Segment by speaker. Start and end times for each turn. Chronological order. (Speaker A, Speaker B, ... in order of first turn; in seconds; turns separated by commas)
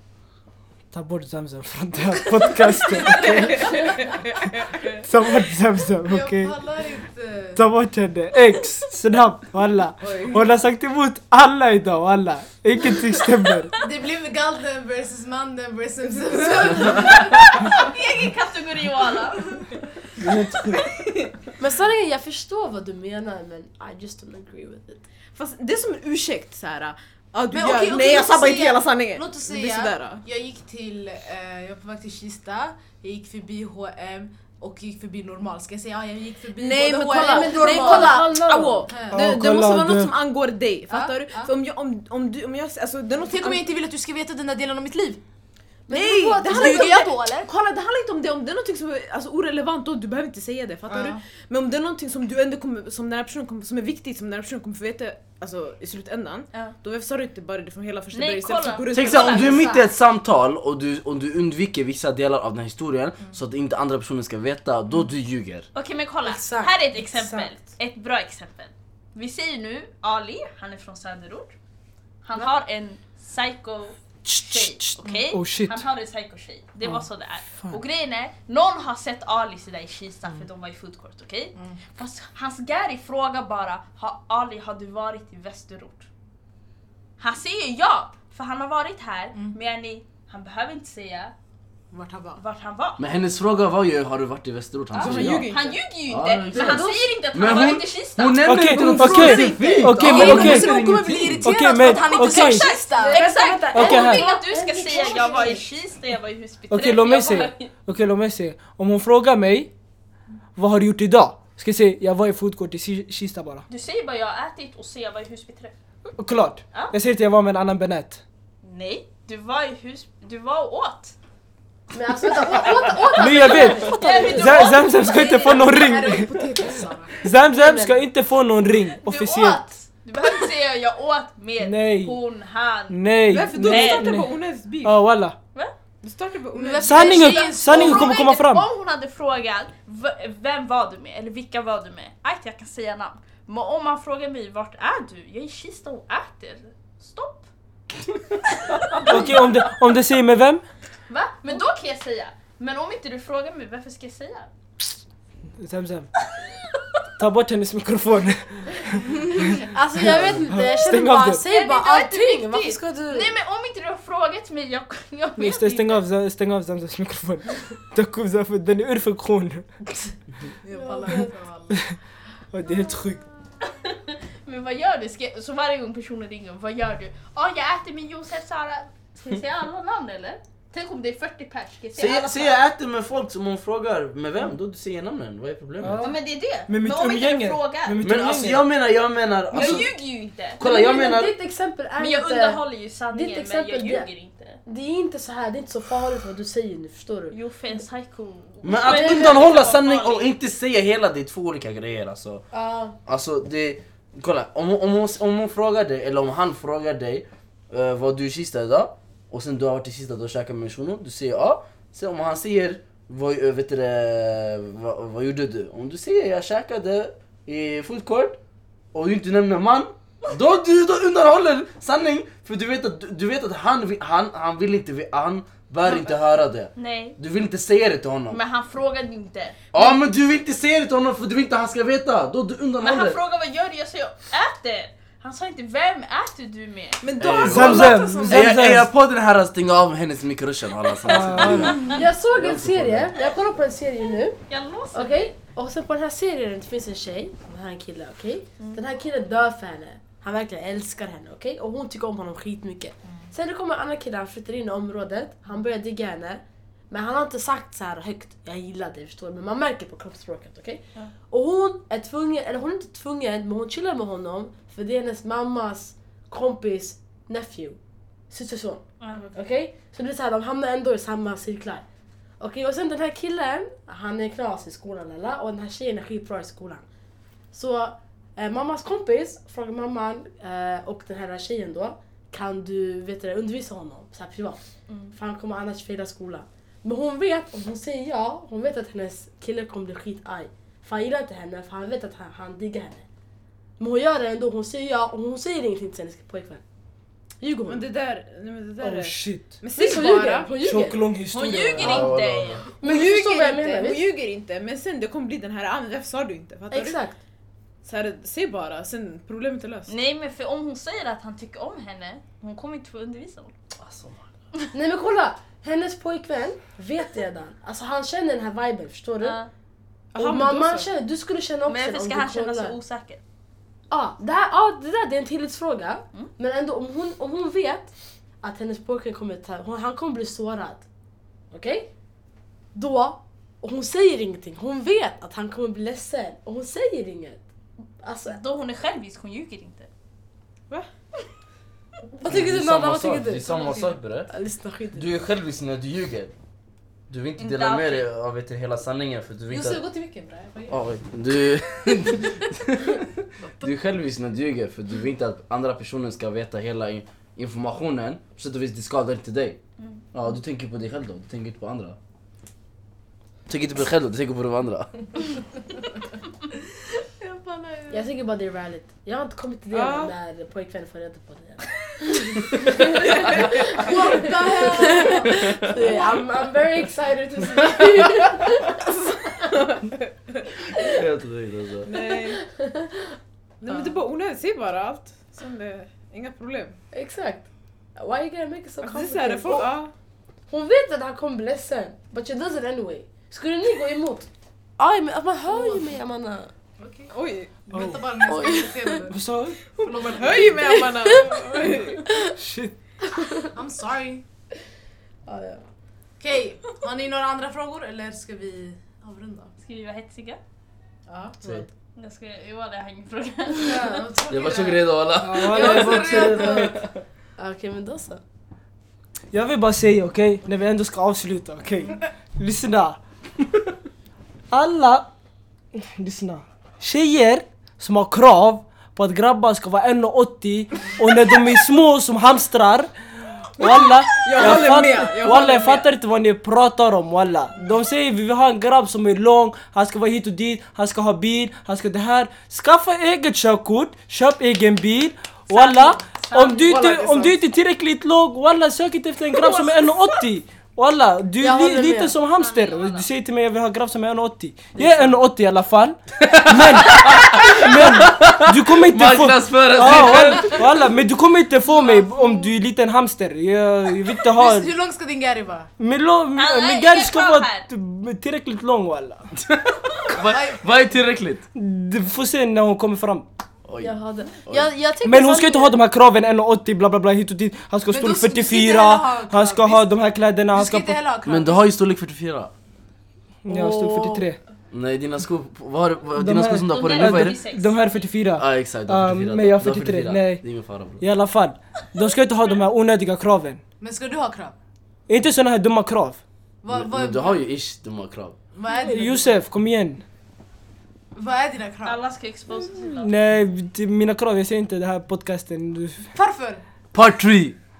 Speaker A: 0.9-3.8, Speaker B: 3.0-5.0, Speaker A: 5.0-6.5, Speaker C: 6.0-7.6, Speaker A: 7.5-13.7, Speaker B: 10.0-10.5, Speaker C: 13.8-17.7, Speaker B: 16.3-16.7, Speaker D: 16.9-20.0, Speaker A: 20.2-20.8, Speaker E: 21.6-25.0, Speaker B: 25.3-30.2, Speaker C: 27.5-38.3, Speaker B: 36.5-43.7, Speaker E: 37.0-38.9, Speaker C: 38.9-39.3, Speaker A: 39.1-40.1, Speaker C: 40.9-41.5, Speaker C: 43.1-45.2, Speaker E: 45.9-47.1, Speaker B: 45.9-59.7, Speaker C: 46.5-47.5, Speaker C: 50.9-51.2, Speaker D: 58.1-59.6, Speaker F: 58.9-65.7, Speaker D: 65.7-71.5, Speaker E: 66.2-66.7, Speaker C: 67.0-67.4, Speaker D: 72.2-86.1, Speaker A: 74.2-75.8, Speaker A: 76.8-77.8, Speaker D: 87.2-91.3, Speaker C: 91.9-92.4, Speaker D: 92.4-93.0, Speaker F: 93.0-95.5, Speaker D: 94.9-98.6, Speaker B: 94.9-95.8, Speaker F: 96.1-101.5, Speaker A: 98.4-102.7, Speaker B: 98.9-99.8, Speaker C: 99.9-103.8, Speaker D: 102.0-107.7, Speaker E: 103.0-105.7, Speaker A: 103.7-104.2, Speaker C: 105.0-105.4, Speaker A: 106.7-109.7, Speaker A: 110.5-113.7, Speaker D: 113.7-115.7, Speaker A: 116.2-118.2, Speaker D: 118.6-121.1, Speaker E: 121.9-124.5, Speaker A: 123.1-126.3, Speaker D: 123.3-125.7, Speaker C: 124.0-124.3, Speaker C: 125.1-127.2, Speaker A: 127.2-129.6, Speaker E: 127.5-128.0, Speaker D: 129.0-134.3, Speaker A: 131.6-132.2, Speaker A: 132.9-134.3, Speaker B: 133.3-135.0, Speaker A: 134.8-135.3, Speaker B: 136.0-137.4, Speaker C: 136.5-138.2, Speaker A: 136.8-138.7, Speaker D: 137.0-147.5, Speaker D: 148.6-149.6, Speaker A: 149.0-150.6, Speaker D: 151.1-154.5, Speaker A: 155.6-156.1, Speaker A: 157.2-159.5, Speaker C: 159.3-159.7, Speaker E: 159.5-163.3, Speaker A: 160.0-161.4, Speaker F: 160.1-160.3, Speaker D: 161.4-166.0, Speaker A: 165.4-169.8, Speaker B: 170.7-171.2, Speaker C: 170.7-171.9, Speaker E: 170.8-171.2, Speaker A: 171.7-171.9, Speaker A: 172.5-173.2, Speaker D: 173.6-182.6, Speaker F: 181.9-186.0, Speaker A: 185.8-188.7, Speaker D: 186.0-188.0, Speaker F: 188.0-189.9, Speaker D: 189.5-190.6, Speaker E: 189.6-189.8, Speaker F: 190.6-191.3, Speaker E: 190.6-192.6, Speaker D: 192.0-194.6, Speaker E: 193.1-194.1, Speaker E: 194.7-197.3, Speaker D: 197.3-200.3, Speaker F: 198.6-202.4, Speaker E: 198.8-199.5, Speaker E: 202.5-203.0, Speaker F: 203.1-218.4, Speaker F: 218.9-228.4, Speaker D: 226.8-227.2, Speaker D: 228.3-229.8, Speaker F: 229.7-233.2, Speaker D: 232.8-237.1, Speaker B: 237.0-238.6, Speaker F: 237.2-243.1, Speaker A: 237.4-238.9, Speaker A: 241.1-241.7, Speaker D: 241.6-242.0, Speaker E: 241.8-244.4, Speaker D: 244.5-245.3, Speaker E: 244.9-267.8, Speaker E: 268.3-268.8, Speaker D: 269.0-269.3, Speaker E: 269.3-271.8, Speaker E: 272.4-276.8, Speaker E: 277.5-284.6, Speaker D: 284.9-285.1, Speaker E: 285.1-293.0, Speaker E: 293.8-296.6, Speaker E: 297.4-297.9, Speaker B: 297.6-300.5, Speaker A: 298.8-299.5, Speaker E: 299.7-301.1, Speaker C: 299.8-300.5, Speaker A: 300.6-302.1, Speaker D: 301.3-302.7, Speaker F: 301.7-302.6, Speaker E: 302.8-304.1, Speaker B: 302.8-307.0, Speaker E: 306.7-307.2, Speaker B: 307.8-309.9, Speaker D: 309.9-313.5, Speaker F: 313.8-314.2, Speaker E: 314.7-319.4, Speaker D: 319.2-319.5, Speaker B: 320.1-320.9, Speaker E: 320.1-322.8, Speaker D: 321.7-323.2, Speaker E: 323.9-327.9, Speaker E: 328.4-330.8, Speaker E: 331.5-331.9, Speaker E: 332.7-337.4, Speaker E: 338.0-338.4, Speaker D: 338.2-339.9, Speaker E: 342.2-345.1, Speaker F: 342.2-344.3, Speaker C: 343.6-343.9, Speaker F: 344.9-346.3, Speaker F: 347.1-349.8, Speaker D: 347.4-348.1, Speaker C: 349.5-350.8, Speaker F: 350.7-359.6, Speaker C: 353.4-353.7, Speaker F: 360.1-362.0, Speaker F: 363.5-364.9, Speaker C: 367.2-367.7, Speaker E: 367.9-379.6, Speaker B: 369.7-370.1, Speaker C: 373.4-376.0, Speaker F: 375.2-375.7, Speaker F: 380.8-381.9, Speaker B: 381.9-382.4, Speaker E: 381.9-383.1, Speaker B: 383.6-386.8, Speaker E: 386.9-389.7, Speaker B: 388.8-389.9, Speaker E: 390.5-396.5, Speaker C: 395.5-395.9, Speaker C: 396.8-397.1, Speaker B: 397.1-397.6, Speaker C: 397.6-399.2, Speaker A: 397.7-398.1, Speaker E: 398.2-399.1, Speaker A: 399.1-399.6, Speaker C: 399.7-400.8, Speaker B: 399.8-402.0, Speaker E: 400.6-402.3, Speaker A: 402.4-402.7, Speaker E: 403.0-403.5, Speaker C: 403.5-404.2, Speaker E: 405.2-405.6, Speaker C: 406.2-409.5, Speaker D: 409.6-410.4, Speaker C: 411.1-411.6, Speaker D: 411.9-414.0, Speaker C: 413.5-414.9, Speaker F: 414.3-416.9, Speaker A: 415.2-416.8, Speaker C: 415.4-416.8, Speaker E: 417.4-418.2, Speaker A: 419.3-423.0, Speaker A: 424.5-425.1, Speaker A: 425.7-432.9, Speaker A: 433.6-464.7, Speaker B: 433.6-435.9, Speaker D: 445.5-446.9, Speaker C: 446.7-447.2, Speaker D: 449.4-449.9, Speaker E: 451.4-452.1, Speaker D: 452.3-453.1, Speaker F: 456.2-460.6, Speaker D: 461.7-462.5, Speaker C: 464.3-465.7, Speaker A: 465.8-469.3, Speaker D: 466.4-467.6, Speaker F: 469.5-471.4, Speaker C: 470.3-470.6, Speaker A: 471.5-473.3, Speaker F: 473.6-474.7, Speaker E: 473.8-475.8, Speaker A: 475.0-481.0, Speaker C: 477.9-479.9, Speaker C: 480.5-481.7, Speaker F: 481.2-482.5, Speaker A: 483.4-484.4, Speaker E: 483.5-484.2, Speaker F: 484.7-487.4, Speaker A: 486.2-490.4, Speaker D: 486.6-488.1, Speaker F: 488.4-491.0, Speaker A: 491.0-493.6, Speaker C: 493.8-494.5, Speaker A: 495.1-496.2, Speaker C: 496.6-497.4, Speaker F: 496.7-498.4, Speaker C: 498.5-499.4, Speaker A: 498.8-500.0, Speaker C: 501.1-502.0, Speaker D: 501.8-503.1, Speaker A: 503.0-506.1, Speaker C: 506.1-506.6, Speaker F: 506.9-507.6